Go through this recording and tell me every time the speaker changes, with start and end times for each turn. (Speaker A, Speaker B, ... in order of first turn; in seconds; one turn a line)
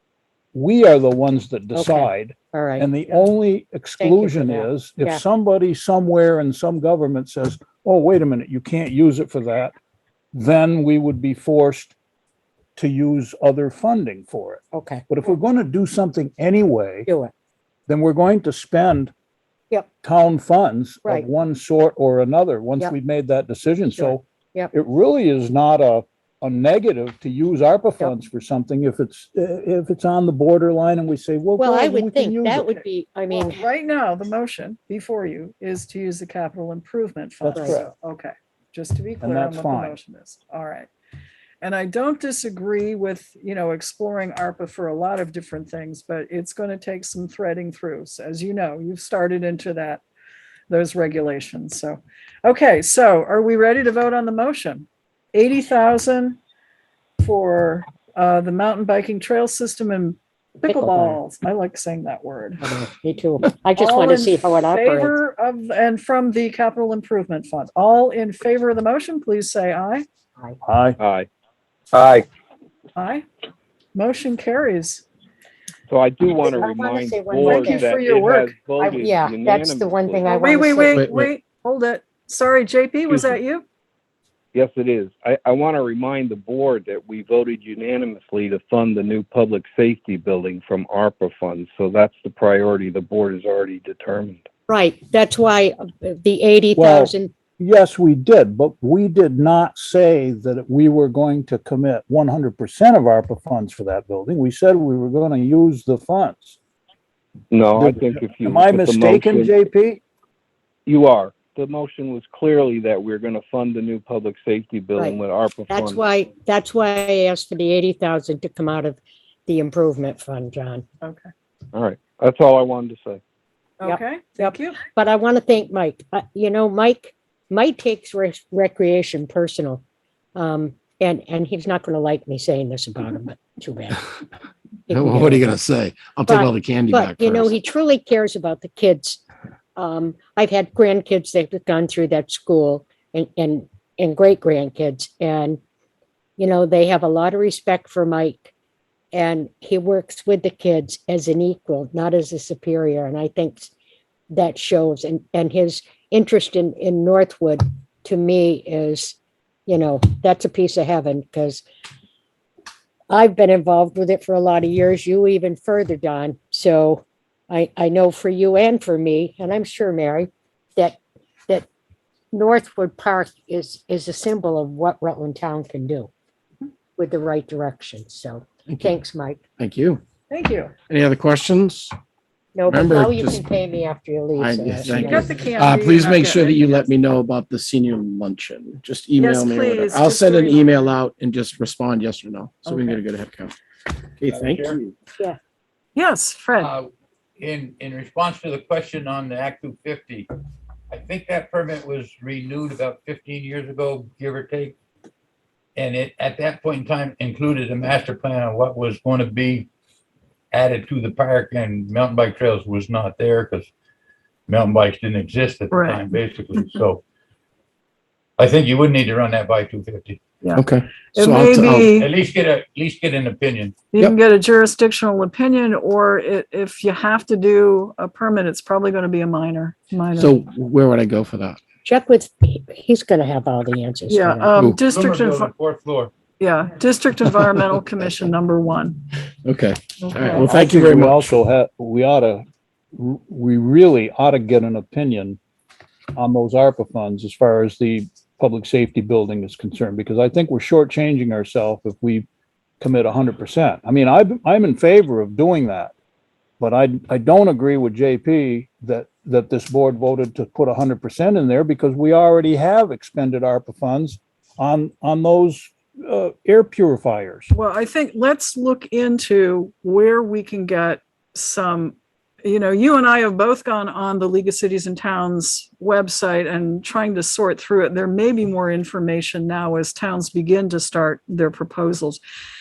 Speaker A: 0.5-9.7
Speaker B: 1.7-2.9
Speaker B: 4.0-5.2
Speaker A: 10.3-11.9
Speaker A: 12.8-17.1
Speaker B: 14.7-15.1
Speaker B: 17.1-17.3
Speaker A: 17.9-19.1
Speaker A: 20.0-32.6
Speaker B: 23.9-24.7
Speaker B: 31.6-33.6
Speaker C: 32.6-40.9
Speaker A: 37.5-37.9
Speaker B: 37.5-37.8
Speaker A: 39.2-40.0
Speaker C: 41.6-50.0
Speaker C: 50.7-56.4
Speaker C: 57.2-62.6
Speaker B: 60.7-61.2
Speaker B: 62.6-65.2
Speaker C: 63.8-70.0
Speaker A: 70.6-71.0
Speaker D: 71.0-71.3
Speaker D: 71.9-72.2
Speaker C: 73.0-73.2
Speaker C: 73.9-75.0
Speaker D: 75.9-80.3
Speaker B: 76.4-77.9
Speaker C: 77.4-78.5
Speaker B: 78.8-81.1
Speaker C: 80.3-83.6
Speaker E: 80.9-81.3
Speaker D: 83.1-83.4
Speaker D: 84.5-94.5
Speaker B: 94.7-97.3
Speaker A: 96.8-106.6
Speaker D: 107.5-109.5
Speaker A: 107.7-110.0
Speaker D: 110.8-116.0
Speaker B: 115.7-120.8
Speaker C: 121.0-121.3
Speaker D: 121.7-123.2
Speaker C: 123.8-124.8
Speaker B: 123.8-129.8
Speaker B: 130.4-134.1
Speaker B: 134.9-135.5
Speaker E: 134.9-137.6
Speaker B: 136.3-139.2
Speaker B: 139.8-145.6
Speaker B: 146.4-148.5
Speaker B: 149.1-153.7
Speaker B: 154.3-161.6
Speaker B: 163.1-171.7
Speaker B: 172.3-176.1
Speaker B: 177.0-179.4
Speaker E: 178.7-178.9
Speaker E: 179.6-180.0
Speaker C: 180.3-180.7
Speaker E: 180.9-181.9
Speaker B: 182.6-185.3
Speaker E: 182.7-183.5
Speaker E: 184.4-193.6
Speaker C: 185.0-186.7
Speaker C: 189.2-190.9
Speaker C: 192.7-193.0
Speaker E: 194.2-194.9
Speaker F: 194.3-194.8
Speaker C: 196.0-196.7
Speaker F: 196.6-196.9
Speaker F: 197.4-200.3
Speaker F: 200.9-204.8
Speaker F: 205.8-209.7
Speaker F: 210.5-213.7
Speaker F: 214.5-217.0
Speaker C: 215.7-216.8
Speaker F: 218.4-220.2
Speaker C: 220.4-222.1
Speaker E: 220.6-222.0
Speaker F: 221.9-223.9
Speaker C: 223.9-230.4
Speaker E: 230.2-231.6
Speaker B: 231.8-234.5
Speaker C: 234.1-235.5
Speaker E: 234.6-234.9
Speaker F: 234.9-236.1
Speaker C: 236.4-239.0
Speaker E: 239.4-241.2
Speaker C: 240.0-240.6
Speaker A: 240.4-242.4
Speaker A: 243.0-245.4
Speaker A: 246.2-252.3
Speaker A: 252.8-255.9
Speaker A: 256.6-267.5
Speaker C: 267.5-282.2